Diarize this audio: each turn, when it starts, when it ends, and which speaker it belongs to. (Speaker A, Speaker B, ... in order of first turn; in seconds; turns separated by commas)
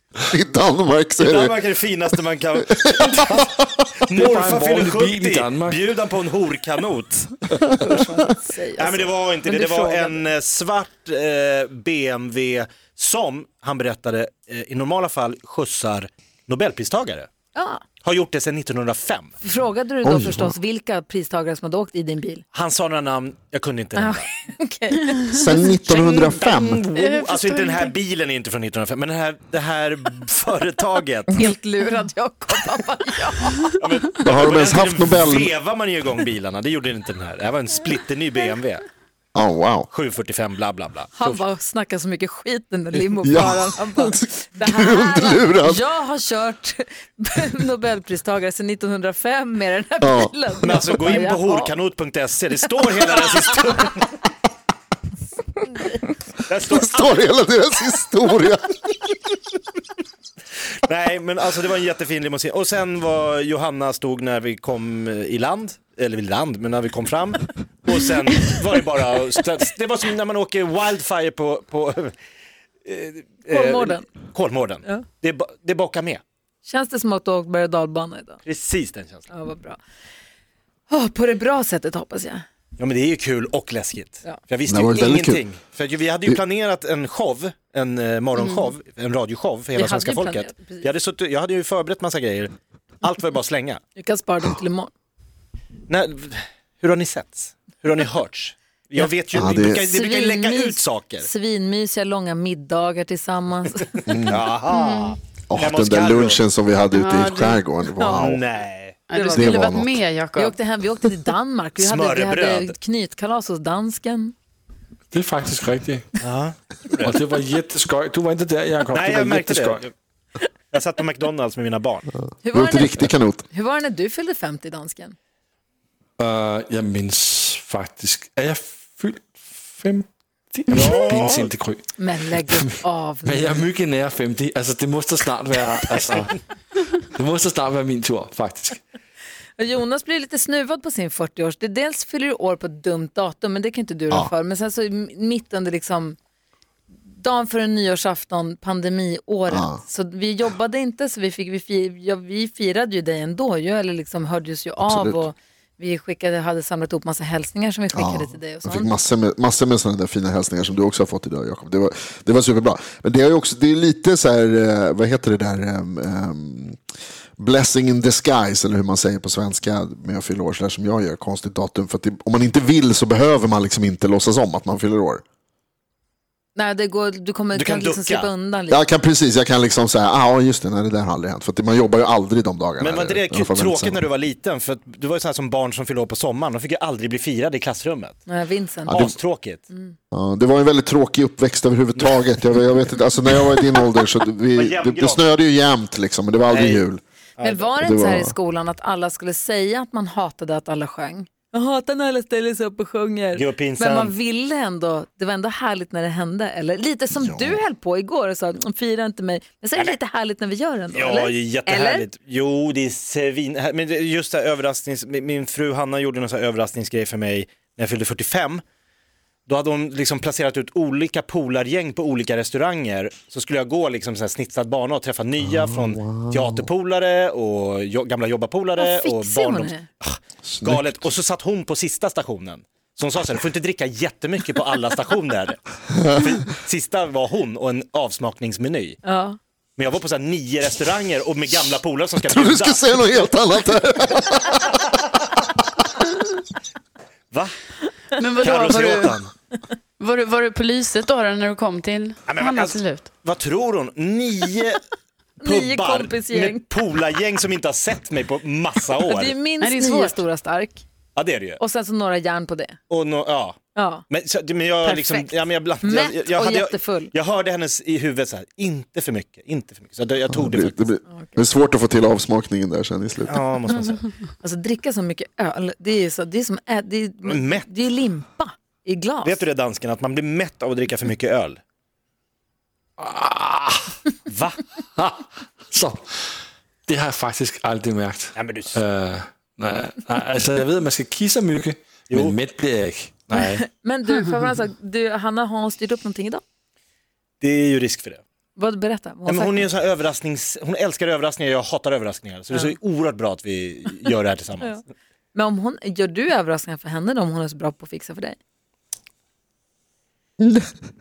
Speaker A: 0.3-1.6, Speaker B: 1.2-3.5, Speaker A: 2.8-3.9, Speaker B: 4.0-7.4, Speaker C: 4.2-5.8, Speaker D: 7.8-10.2, Speaker B: 8.8-17.3, Speaker D: 17.5-17.8, Speaker B: 18.0-19.3, Speaker D: 19.4-22.4, Speaker A: 20.0-20.5, Speaker B: 22.5-24.3, Speaker D: 23.9-25.4, Speaker A: 25.3-26.8, Speaker B: 25.9-31.4, Speaker E: 26.9-27.9, Speaker D: 31.3-33.6, Speaker B: 33.8-38.8, Speaker A: 34.2-35.5, Speaker A: 39.3-39.9, Speaker B: 39.9-41.4, Speaker D: 41.1-51.7, Speaker A: 43.2-45.8, Speaker A: 50.0-50.3, Speaker B: 50.6-54.1, Speaker B: 56.5-57.2, Speaker A: 56.6-59.1, Speaker B: 60.8-72.1, Speaker B: 72.8-76.2, Speaker D: 73.5-74.0, Speaker D: 76.6-78.4, Speaker B: 78.4-79.3, Speaker D: 79.3-79.8, Speaker D: 80.9-82.4, Speaker B: 82.8-93.8, Speaker A: 84.7-85.4, Speaker E: 88.3-88.7, Speaker D: 89.7-90.9, Speaker D: 94.0-94.9, Speaker B: 95.9-101.3, Speaker A: 99.3-99.8, Speaker D: 99.9-104.0, Speaker A: 104.1-104.4, Speaker B: 104.3-106.4, Speaker E: 104.7-105.2, Speaker A: 105.5-108.4, Speaker E: 106.9-107.6, Speaker D: 108.0-108.3, Speaker B: 108.1-109.0, Speaker E: 109.1-110.6, Speaker D: 109.1-109.5, Speaker A: 109.3-110.0, Speaker D: 110.3-114.3, Speaker B: 111.8-112.7, Speaker C: 115.1-116.1, Speaker B: 116.2-117.2, Speaker C: 117.0-119.8, Speaker B: 118.9-119.9, Speaker B: 120.7-122.1, Speaker D: 122.4-125.1, Speaker A: 122.5-123.4, Speaker C: 126.2-131.8, Speaker B: 130.7-131.5, Speaker D: 132.0-133.7, Speaker C: 132.5-136.4, Speaker C: 137.1-138.8, Speaker D: 139.6-146.2, Speaker D: 147.1-158.9, Speaker A: 149.5-149.8, Speaker A: 154.8-155.2, Speaker A: 157.9-166.8, Speaker A: 167.4-175.2, Speaker D: 176.5-178.8, Speaker B: 177.5-178.3, Speaker A: 178.7-184.0, Speaker B: 182.8-188.2, Speaker D: 188.3-189.0, Speaker B: 188.8-189.6, Speaker A: 188.9-189.1, Speaker A: 190.1-197.0, Speaker B: 194.5-195.3, Speaker B: 196.5-196.8, Speaker B: 197.4-197.7, Speaker D: 197.4-212.1, Speaker A: 197.8-198.3, Speaker B: 203.3-204.1, Speaker A: 207.1-207.6, Speaker B: 210.9-218.6, Speaker B: 219.5-239.0, Speaker A: 225.5-226.7, Speaker D: 228.8-229.8, Speaker A: 230.5-231.0, Speaker A: 236.0-236.2, Speaker D: 239.0-239.4, Speaker B: 239.8-243.0, Speaker A: 242.3-244.8, Speaker E: 248.2-249.2, Speaker B: 248.4-249.3, Speaker E: 250.0-253.1, Speaker B: 252.3-254.8, Speaker D: 255.4-256.7, Speaker B: 255.4-259.4, Speaker D: 259.0-260.8, Speaker E: 259.6-260.2, Speaker B: 261.1-261.6, Speaker D: 261.6-262.8, Speaker B: 262.9-270.9, Speaker D: 263.7-264.0, Speaker E: 264.8-265.4, Speaker D: 265.8-267.1, Speaker A: 270.3-273.5, Speaker B: 273.3-274.0, Speaker D: 274.4-279.4, Speaker B: 277.2-277.7, Speaker B: 279.2-281.6, Speaker C: 283.0-283.9, Speaker B: 284.3-284.6, Speaker C: 285.0-286.1, Speaker C: 286.9-293.6, Speaker B: 288.3-288.8, Speaker B: 292.1-292.4, Speaker D: 293.3-296.4, Speaker B: 297.4-298.2, Speaker D: 298.6-299.7, Speaker B: 299.2-304.8, Speaker D: 305.3-308.4, Speaker A: 310.4-310.6